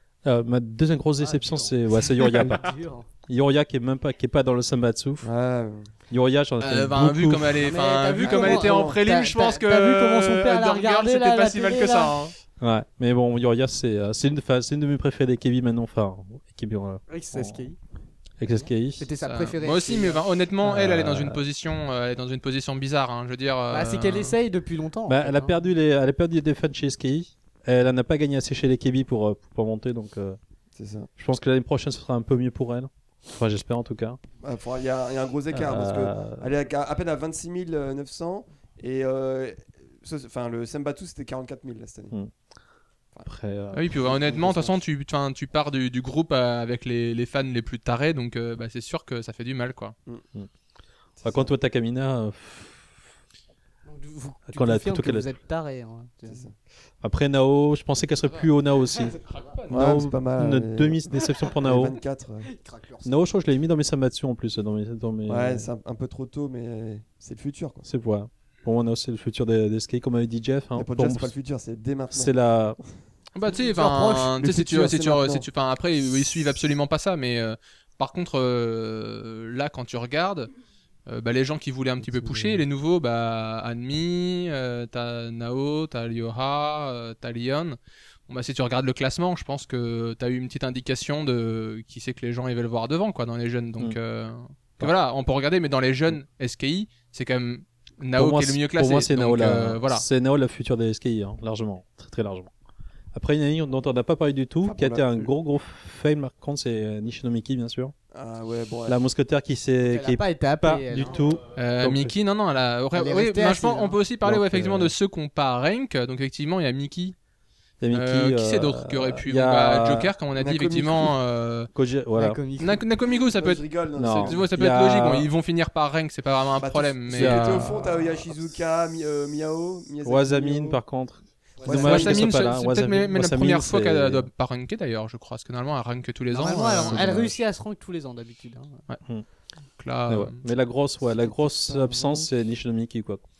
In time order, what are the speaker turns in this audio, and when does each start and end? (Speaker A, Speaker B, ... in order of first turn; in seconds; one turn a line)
Speaker A: 0.2-2.8
Speaker B: 1.2-3.1
Speaker A: 3.3-5.3
Speaker C: 5.2-5.9
Speaker A: 6.1-7.6
Speaker D: 6.6-12.3
Speaker B: 7.6-12.2
Speaker C: 8.2-9.0
Speaker A: 12.6-17.7
Speaker B: 17.1-17.8
Speaker A: 18.4-19.1
Speaker B: 19.0-20.2
Speaker D: 19.3-24.4
Speaker A: 20.6-21.4
Speaker B: 23.7-25.6
Speaker A: 25.1-30.4
Speaker C: 30.8-31.1
Speaker A: 31.2-34.2
Speaker C: 34.4-42.2
Speaker A: 35.5-36.5
Speaker A: 43.3-44.2
Speaker D: 43.7-50.0
Speaker C: 44.0-44.8
Speaker C: 51.2-51.5
Speaker A: 51.2-52.9
Speaker B: 53.9-56.4
Speaker A: 54.5-55.4
Speaker A: 57.0-59.2
Speaker B: 58.3-59.2
Speaker D: 59.2-60.0
Speaker A: 59.7-62.0
Speaker C: 59.7-62.5
Speaker B: 62.5-63.2
Speaker A: 63.0-65.7
Speaker C: 65.3-67.9
Speaker A: 67.8-71.3
Speaker C: 70.8-72.3
Speaker A: 72.1-72.8
Speaker D: 73.3-80.5
Speaker C: 73.5-75.5
Speaker D: 81.1-87.8
Speaker C: 82.0-82.6
Speaker D: 88.3-100.0
Speaker A: 98.2-102.5
Speaker A: 103.1-107.9
Speaker C: 104.7-105.3
Speaker C: 108.1-109.0
Speaker A: 108.9-112.2
Speaker B: 109.9-111.3
Speaker D: 111.6-117.2
Speaker B: 112.9-114.0
Speaker A: 114.2-114.9
Speaker A: 117.8-120.1
Speaker D: 117.9-121.7
Speaker C: 120.4-121.1
Speaker A: 121.8-122.4
Speaker B: 122.2-122.8
Speaker D: 122.6-127.8
Speaker C: 123.4-124.5
Speaker A: 124.0-125.3
Speaker C: 126.6-130.8
Speaker A: 127.1-128.4
Speaker A: 130.0-134.3
Speaker C: 131.6-132.4
Speaker D: 131.7-137.0
Speaker B: 136.3-138.8
Speaker A: 136.7-137.4
Speaker D: 139.8-140.4
Speaker A: 140.1-143.2
Speaker C: 141.1-142.3